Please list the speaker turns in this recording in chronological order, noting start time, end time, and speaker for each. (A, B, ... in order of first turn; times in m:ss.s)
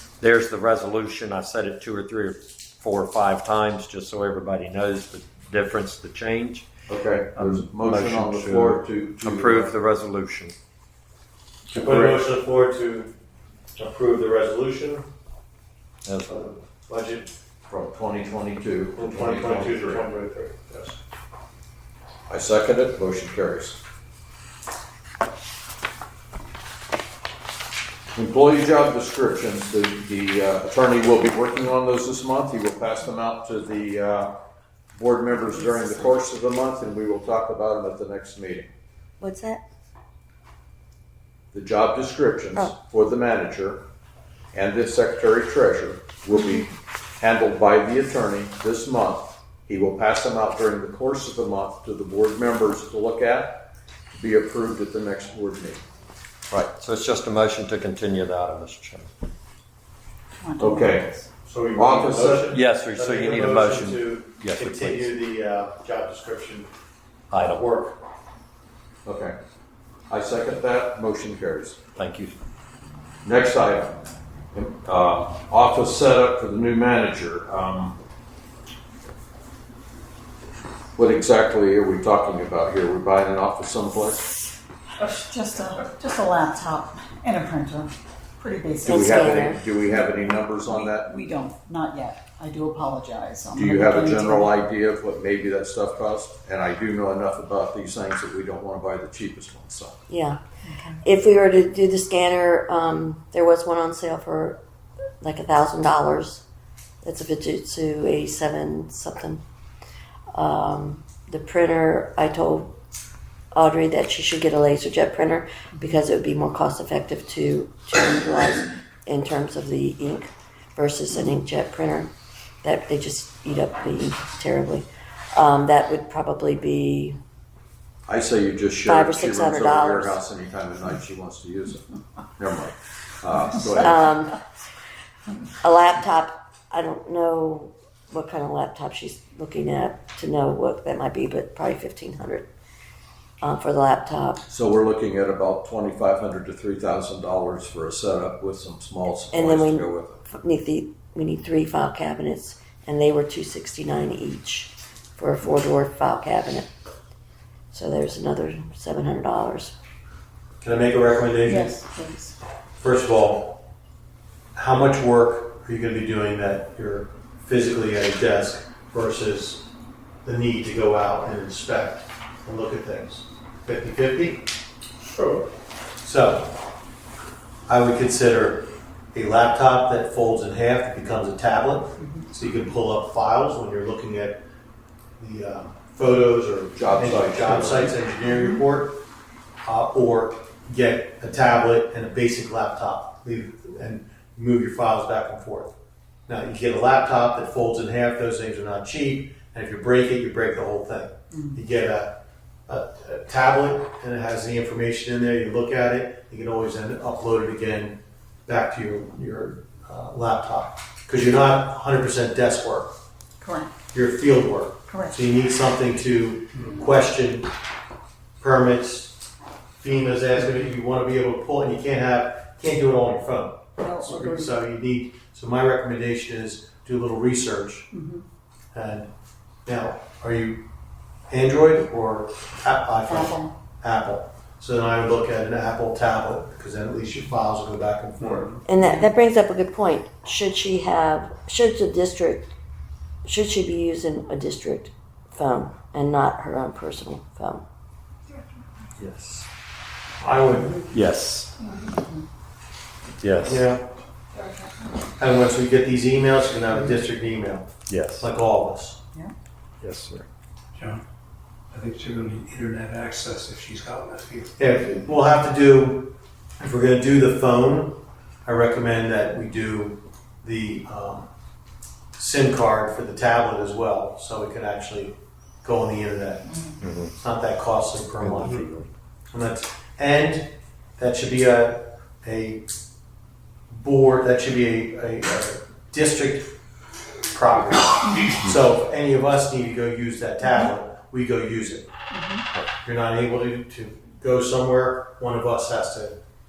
0:00.2-0:06.7 A
0:06.9-0:09.7 B
0:07.4-0:10.6 A
0:11.7-0:12.2 B
0:11.7-0:13.1 C
0:13.7-0:15.1 C
0:16.0-0:16.4 A
0:16.3-0:17.3 C
0:17.7-0:20.0 B
0:18.9-0:21.0 C
0:22.3-0:23.8 B
0:28.1-0:34.4 B
0:34.9-0:38.7 B
0:39.2-0:39.6 D
0:41.5-0:43.8 B
0:44.5-0:55.8 B
0:56.5-0:59.1 A
1:00.4-1:01.2 E
1:00.6-1:01.1 B
1:01.4-1:06.7 C
1:01.7-1:02.5 B
1:02.5-1:05.1 A
1:07.3-1:07.7 A
1:07.4-1:08.0 C
1:09.0-1:09.4 B
1:10.1-1:11.8 B
1:12.0-1:12.3 A
1:13.2-1:14.0 B
1:14.5-1:18.0 B
1:21.0-1:24.3 B
1:25.0-1:29.3 E
1:28.8-1:29.6 D
1:28.9-1:31.1 B
1:29.9-1:34.5 E
1:33.5-1:39.9 B
1:40.1-1:40.4 D
1:40.6-1:41.0 E
1:41.0-1:44.6 D
1:45.2-1:46.4 D
1:47.0-1:49.4 D
1:50.3-1:52.7 D
1:53.5-2:02.1 D
2:02.6-2:07.2 D
2:08.1-2:11.8 B
2:08.8-2:10.2 D
2:12.4-2:14.1 B
2:13.8-2:14.4 D
2:15.6-2:22.5 D
2:23.4-2:24.4 D
2:24.5-2:30.2 B
2:29.3-2:36.7 D
2:37.7-2:39.7 D
2:40.6-2:41.8 C
2:41.4-2:42.4 E
2:42.8-2:43.6 C
2:44.5-2:49.6 C
2:50.2-2:54.5 C
2:56.0-2:56.6 C
2:57.7-3:04.4 C
3:05.2-3:09.0 C
3:06.7-3:08.0 B
3:08.2-3:08.6 E
3:09.6-3:15.7 C
3:16.3-3:22.2 C
3:22.7-3:32.9 C
3:33.4-3:33.7 E
3:33.9-3:37.5 C
3:34.9-3:35.2 E
3:38.4-3:39.2 C
3:39.8-3:47.9 C
3:43.8-3:44.5 E
3:47.9-3:48.2 E
3:48.7-3:49.1 C
3:49.6-3:50.6 C
3:51.3-3:58.5 C
3:53.0-3:53.5 E
3:58.6-4:02.5 D
3:58.8-3:59.0 E
4:03.2-4:07.6 D
4:09.0-4:09.5 A
4:10.2-4:10.9 C
4:10.9-4:11.5 A
4:11.6-4:12.2 E
4:13.2-4:13.6 A
4:13.4-4:13.9 C
4:14.3-4:14.9 E
4:15.2-4:19.0 C
4:17.9-4:18.3 A
4:19.8-4:20.2 A
4:20.7-4:21.0 F
4:21.7-4:24.5 F
4:24.6-4:31.3 C
4:32.2-4:36.5 C
4:36.8-4:37.1 A
4:37.1-4:38.6 C
4:38.2-4:38.9 A
4:39.3-4:42.7 C
4:43.7-4:46.6 C
4:47.3-4:51.9 C
4:50.4-4:50.7 E
4:52.1-4:52.4 E
4:52.8-4:56.2 C